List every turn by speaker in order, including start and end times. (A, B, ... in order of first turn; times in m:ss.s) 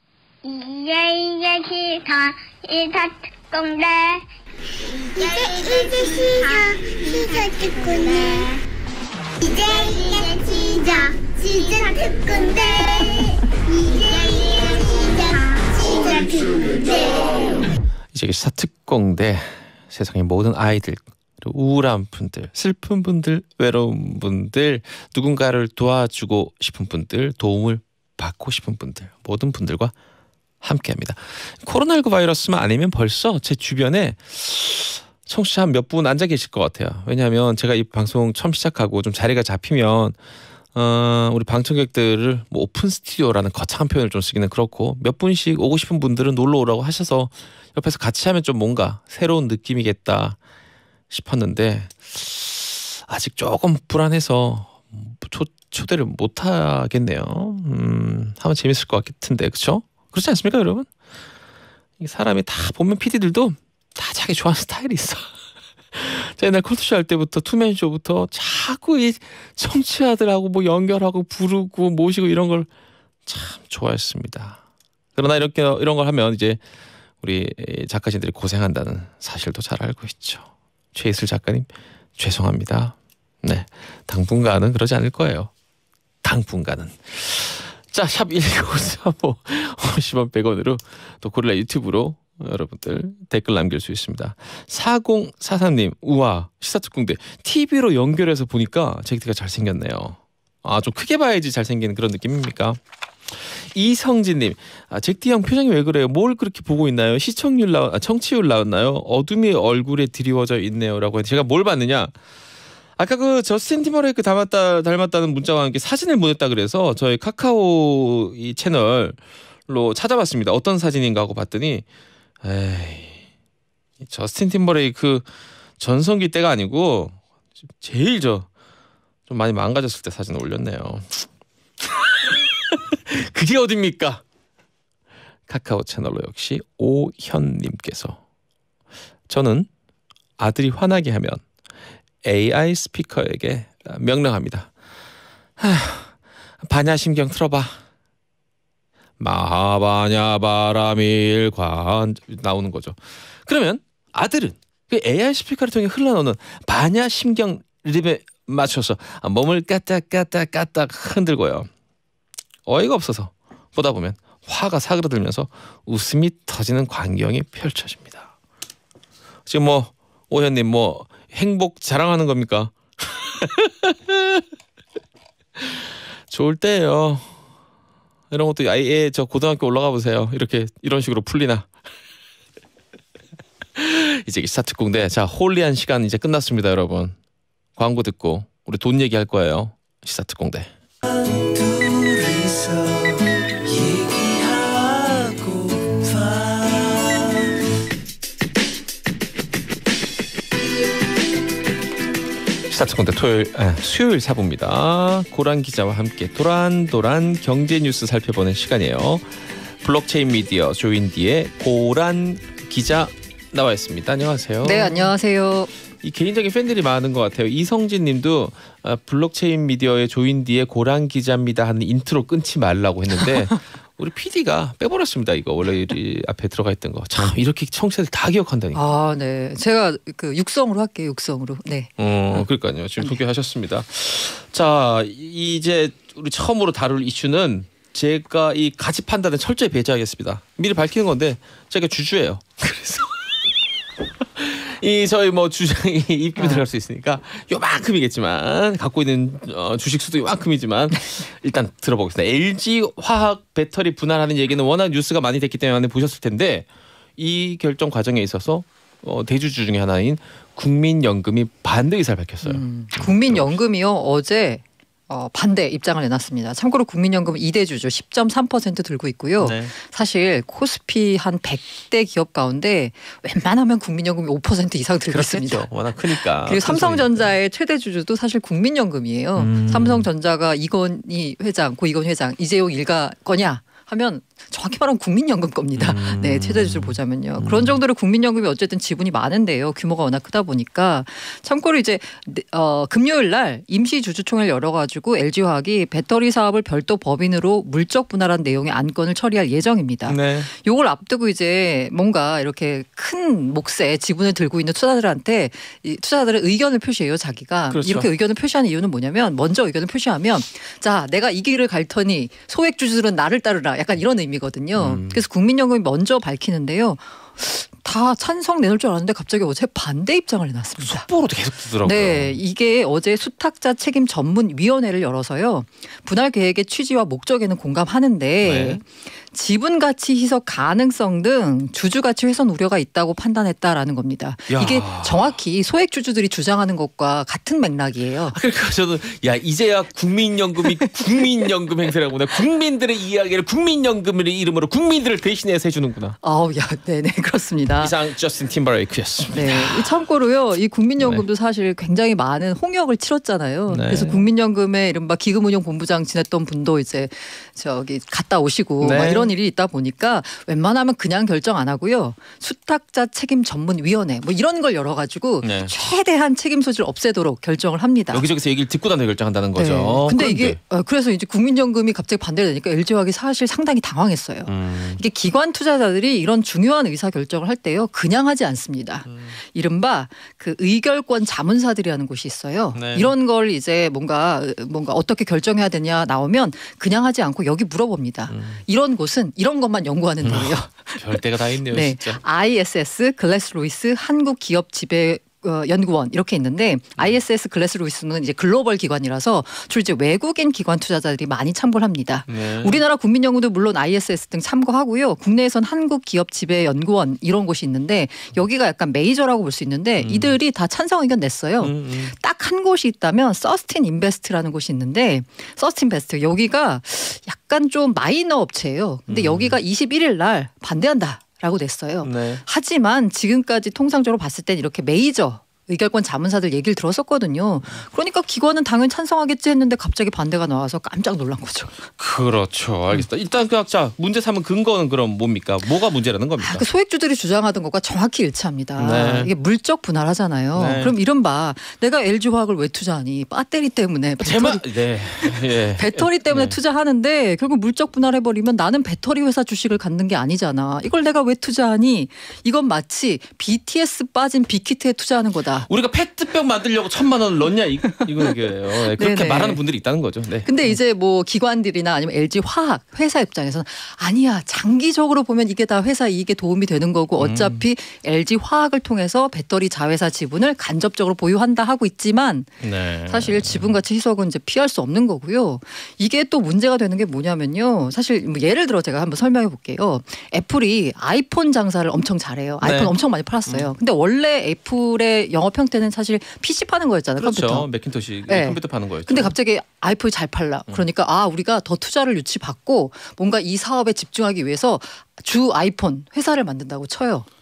0:00.4-0:04.2 A
0:04.9-0:08.6 A
0:09.4-0:17.6 A
0:18.1-0:29.9 B
0:30.6-0:40.2 B
0:40.7-0:50.4 B
0:51.1-1:00.9 B
1:02.0-1:05.3 B
1:05.9-1:12.7 B
1:13.3-1:14.6 B
1:15.2-1:16.6 B
1:17.2-1:25.5 B
1:26.2-1:52.1 B
1:53.0-2:01.8 B
2:02.4-2:03.2 B
2:04.0-2:05.3 B
2:05.8-2:07.2 B
2:07.8-2:08.5 B
2:09.3-2:11.2 B
2:11.8-2:14.2 B
2:15.5-2:18.2 B
2:19.3-2:19.7 B
2:20.4-2:21.4 B
2:22.2-2:24.7 B
2:25.6-2:27.8 B
2:29.2-2:41.7 B
2:42.7-2:48.3 B
2:49.5-2:54.4 B
2:55.6-2:57.3 B
2:58.3-3:01.7 B
3:03.8-3:07.2 B
3:07.8-3:10.7 B
3:11.4-3:17.3 B
3:22.7-3:35.1 B
3:34.6-3:35.7 C
3:36.0-3:48.8 B
3:48.7-3:52.5 C
3:52.0-4:03.4 B
4:04.2-4:16.7 B
4:06.4-4:06.6 C
4:17.2-4:23.6 B
4:22.4-5:21.1 C
4:29.4-4:29.7 B
4:35.1-4:37.4 B
4:39.4-4:40.1 B
4:45.8-4:47.8 B
5:00.1-5:00.5 B
5:07.7-5:08.1 B
5:14.8-5:15.2 B
5:20.8-5:22.4 B
5:21.8-5:38.4 C
5:28.4-5:28.8 B
5:34.5-5:35.3 B
5:38.3-5:46.2 B
5:46.2-5:47.9 C
5:47.8-5:50.0 B
5:49.3-6:08.2 C
5:51.0-5:51.2 B
5:53.7-5:54.3 B
5:58.8-5:59.3 B
6:05.4-6:05.7 B
6:08.1-6:10.6 B
6:09.6-7:11.9 C
6:14.5-6:15.0 B
6:19.1-6:19.4 B
6:22.7-6:23.1 B
6:28.3-6:28.6 B
6:30.2-6:32.2 B
6:42.3-6:42.8 B
6:50.0-6:50.4 B
6:51.6-6:52.1 B
6:59.1-6:59.6 B
7:02.0-7:02.4 B
7:12.0-7:16.7 B
7:16.4-7:24.7 C
7:18.8-7:19.3 B
7:20.6-7:21.0 B
7:24.2-7:26.6 B
7:25.2-7:35.7 C
7:35.7-7:40.8 B
7:38.0-7:38.3 C
7:38.9-7:39.6 C
7:40.4-8:07.7 C
7:47.2-7:47.6 B
7:52.6-7:53.7 B
8:02.6-8:02.9 B
8:03.5-8:03.7 B
8:07.2-8:09.3 B
8:08.3-8:17.3 C